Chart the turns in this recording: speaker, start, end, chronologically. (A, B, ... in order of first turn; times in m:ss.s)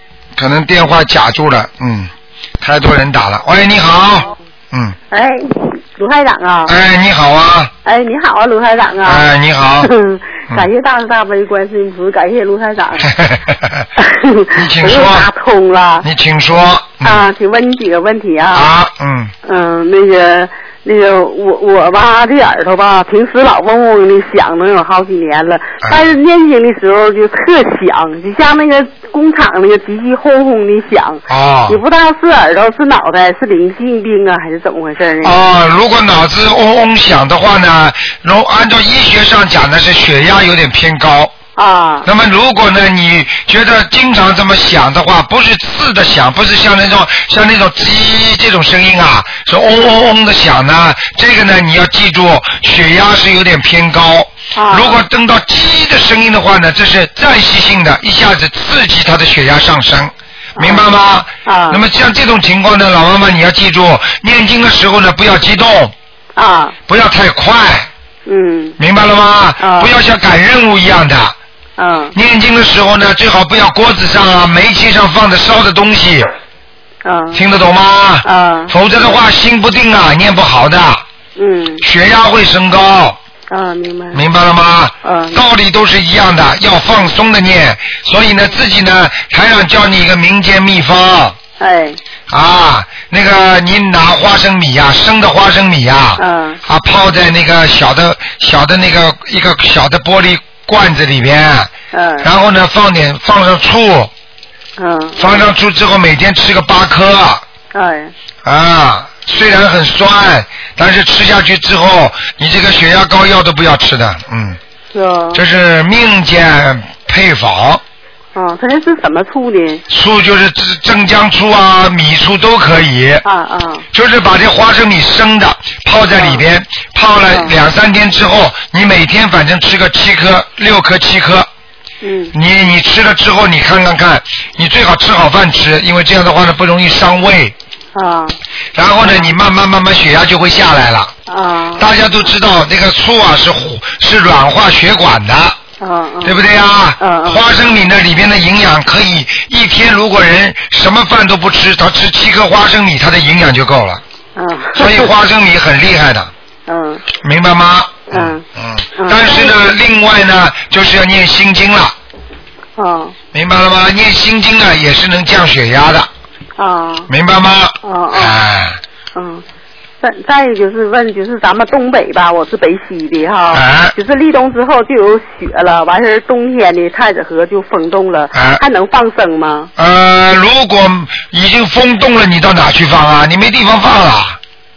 0:00.4-0:05.0 A
0:05.1-0:06.7 B
0:06.6-0:07.7 A
0:07.8-0:09.2 B
0:09.0-0:09.9 A
0:09.8-0:13.1 B
0:13.0-0:13.9 A
0:14.0-0:16.0 B
0:14.5-0:15.3 A
0:16.0-0:17.2 A
0:17.0-0:18.7 B
0:18.5-0:19.3 A
0:19.5-0:35.4 B
0:25.8-0:26.1 A
0:31.3-0:31.8 A
0:35.2-0:41.3 A
0:41.6-0:42.1 B
0:42.0-1:05.9 A
0:54.5-0:55.0 B
1:00.6-1:00.9 B
1:01.4-1:01.8 B
1:06.4-1:06.8 B
1:06.9-1:07.9 A
1:08.3-1:08.8 B
1:08.8-1:11.4 A
1:09.6-1:09.9 B
1:11.8-1:12.1 B
1:12.1-1:16.3 A
1:17.0-1:17.4 B
1:17.3-1:21.0 A
1:18.2-1:18.7 B
1:21.4-1:21.8 B
1:21.8-1:23.2 A
1:23.5-1:24.2 B
1:24.1-1:31.4 A
1:25.0-1:25.4 B
1:31.6-1:32.0 B
1:32.3-1:44.1 A
1:36.2-1:36.6 B
1:41.9-1:42.3 B
1:44.8-1:45.3 B
1:45.2-1:47.4 A
1:47.7-1:48.1 B
1:48.4-1:54.6 A
1:54.9-1:55.4 B
1:55.3-1:57.8 A
1:58.4-1:59.8 B
1:59.9-2:03.2 A
2:03.2-2:03.8 B
2:03.9-2:11.5 A
2:06.1-2:06.4 B
2:12.0-2:12.3 B
2:12.3-2:17.6 A
2:17.9-2:18.4 B
2:18.8-2:21.1 A
2:19.0-2:19.4 B
2:21.3-2:21.8 B
2:21.8-2:25.6 A
2:25.8-2:26.4 B
2:26.2-2:34.0 A
2:27.0-2:27.4 B
2:34.4-2:35.1 B
2:34.8-2:36.3 A
2:36.7-2:37.0 B
2:37.2-2:41.9 A
2:38.1-2:38.4 B
2:39.0-2:39.6 B
2:42.8-2:43.1 B
2:43.3-2:46.1 A
2:46.6-2:47.1 B
2:47.1-2:48.8 A
2:47.8-2:48.4 B
2:49.1-2:49.4 B
2:50.0-2:59.7 B
2:53.5-2:53.9 A
2:58.3-2:58.6 A
2:59.8-3:04.4 A